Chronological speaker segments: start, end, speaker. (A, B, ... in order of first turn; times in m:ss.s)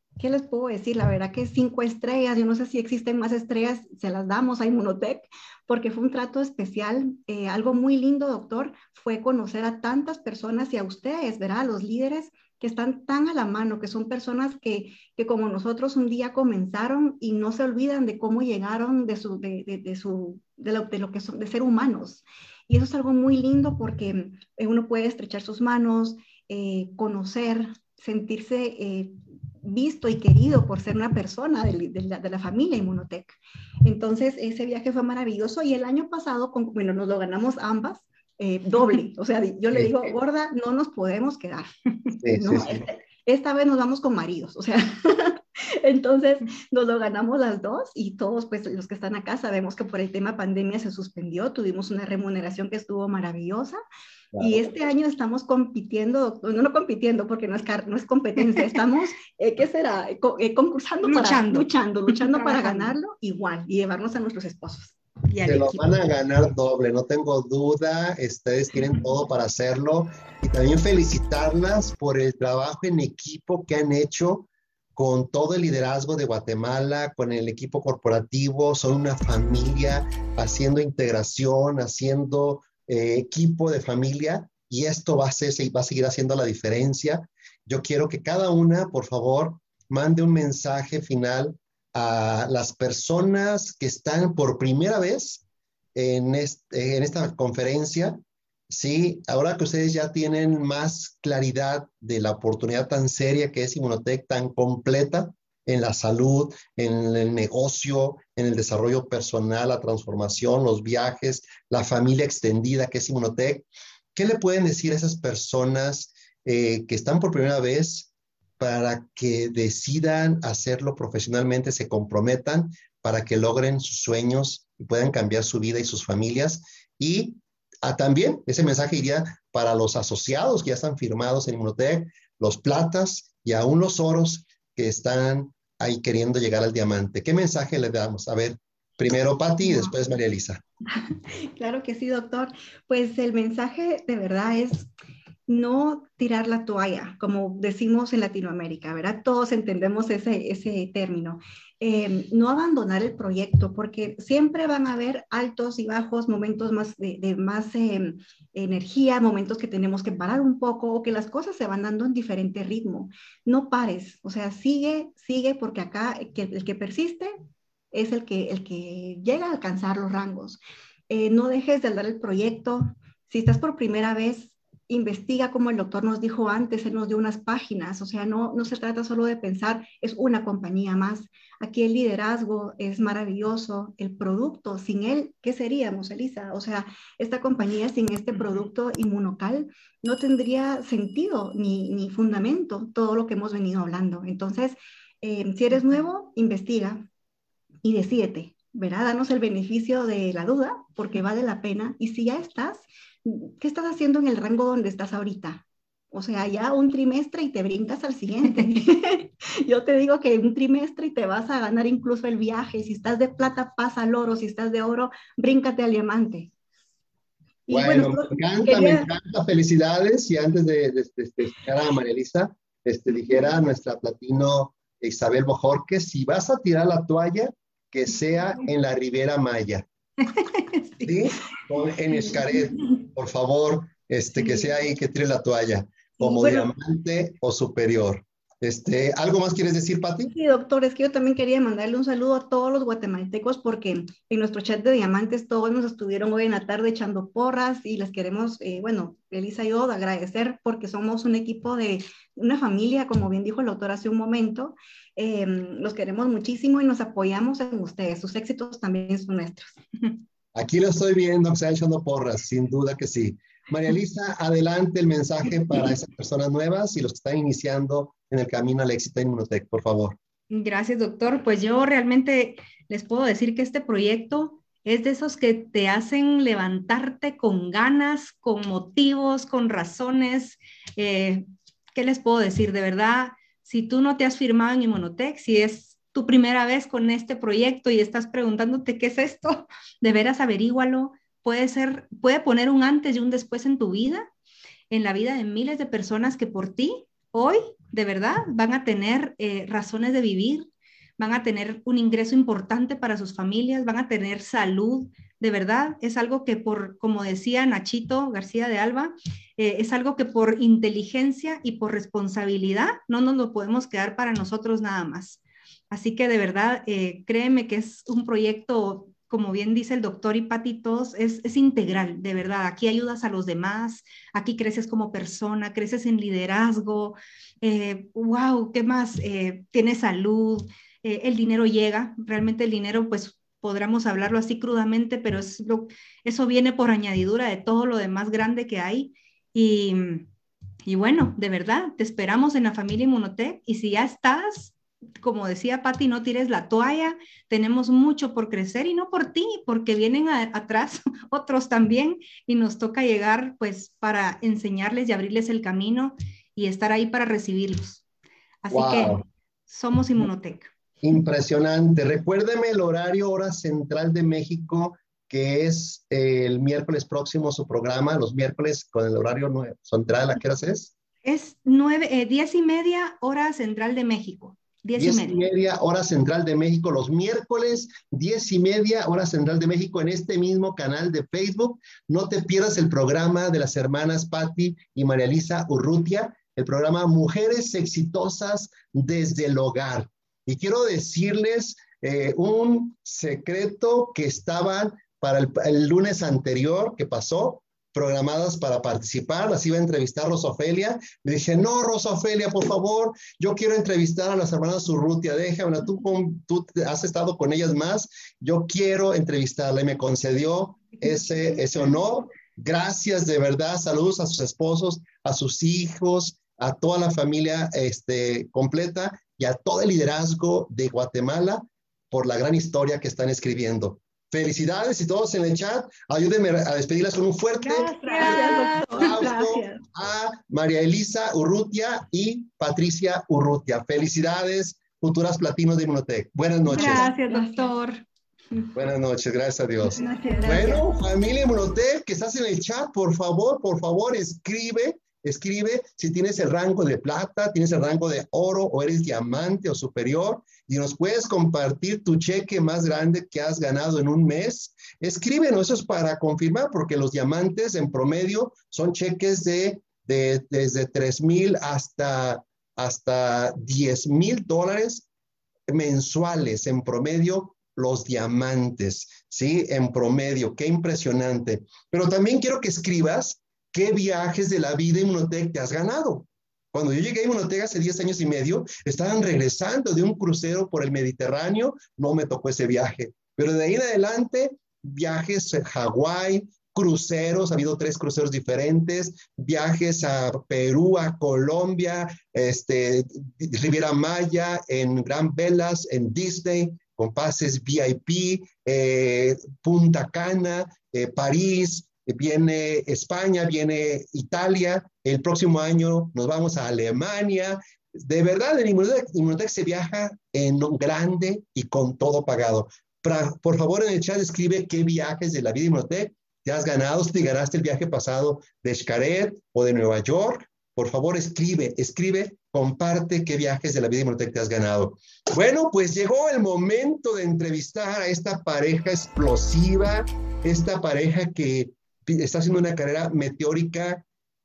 0:00.2-0:41.7 A
0:39.7-0:40.1 B
0:42.2-0:42.9 B
0:42.3-0:53.8 A
0:54.3-0:54.7 B
0:54.4-1:05.0 A
1:01.0-1:02.9 C
1:05.3-1:05.8 C
1:05.4-1:35.4 B
1:36.0-1:38.2 B
1:38.7-2:20.6 B
2:19.6-2:19.9 A
2:21.5-2:24.9 A
2:25.5-2:47.4 A
2:47.9-3:17.1 A
3:17.8-3:36.5 A
3:37.7-3:39.1 A
3:37.7-3:49.8 B
3:50.4-3:51.1 C
3:51.0-4:00.3 B
3:56.3-3:56.5 A
4:00.3-4:19.8 A
4:20.6-4:30.2 B
4:30.5-4:41.4 C
4:42.0-4:54.3 C
4:54.9-5:40.3 C
5:40.9-5:58.0 C
5:58.6-6:00.7 C
5:58.7-5:59.2 B
6:01.0-6:10.9 B
6:11.2-6:15.4 C
6:15.0-7:17.1 B
7:07.7-7:09.8 A
7:08.0-7:09.6 C
7:16.7-7:18.0 C
7:16.7-7:17.7 A
7:18.8-7:45.1 B
7:19.9-7:20.8 A
7:19.9-7:20.8 C
7:45.7-8:54.0 B